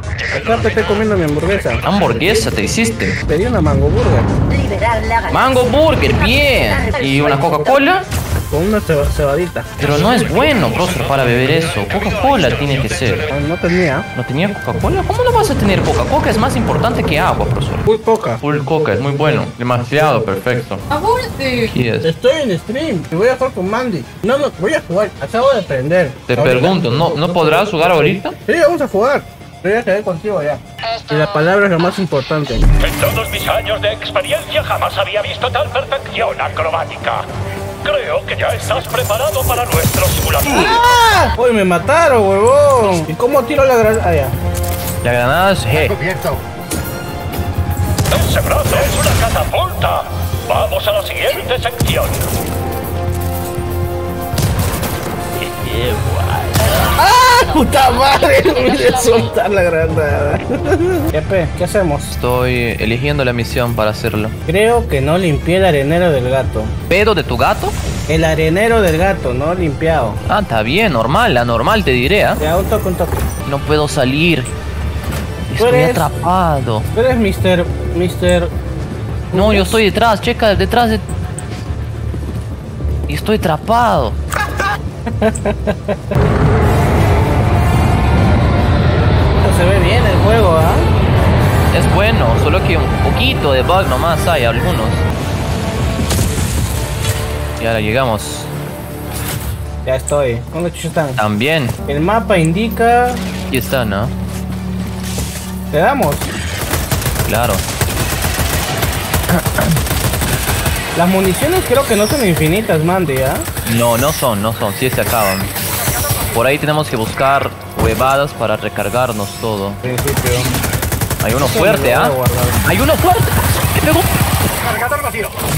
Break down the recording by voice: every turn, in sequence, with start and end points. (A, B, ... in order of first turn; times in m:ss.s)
0:00.2-0:01.8 A
0:01.8-0:03.2 B
0:03.3-0:04.3 A
0:04.5-0:05.4 C
0:05.3-0:08.0 B
0:06.0-0:07.7 C
0:08.5-0:09.7 A
0:09.8-0:13.3 B
0:13.3-0:14.1 A
0:14.1-0:17.9 B
0:17.8-0:18.4 A
0:18.4-0:22.1 B
0:22.0-0:32.7 A
0:26.3-0:28.3 B
0:32.8-0:37.3 D
0:37.8-0:40.4 D
0:40.4-0:40.8 B
0:40.4-0:44.3 A
0:45.0-0:46.1 B
0:48.1-0:52.3 D
0:56.7-1:02.1 A
1:02.1-1:04.4 B
1:04.5-1:06.7 A
1:06.9-1:07.7 B
1:08.1-1:10.2 A
1:10.3-1:12.4 B
1:12.4-1:13.2 A
1:13.4-1:14.5 B
1:15.5-1:16.9 B
1:15.6-1:16.1 A
1:16.9-1:18.5 A
1:19.3-1:19.8 A
1:19.3-1:21.0 B
1:23.1-1:24.2 B
1:25.1-1:26.0 A
1:29.4-1:30.9 A
1:31.7-1:35.0 B
1:37.6-1:38.5 B
1:39.8-1:41.2 A
1:41.2-1:41.8 B
1:41.9-1:43.2 A
1:43.5-1:44.1 B
1:45.7-1:46.3 A
1:47.2-1:47.6 B
1:49.3-1:49.8 B
1:50.9-1:53.5 A
1:53.6-1:55.5 B
1:56.3-1:59.8 B
1:59.8-2:00.5 A
2:01.2-2:04.1 B
2:01.4-2:02.6 A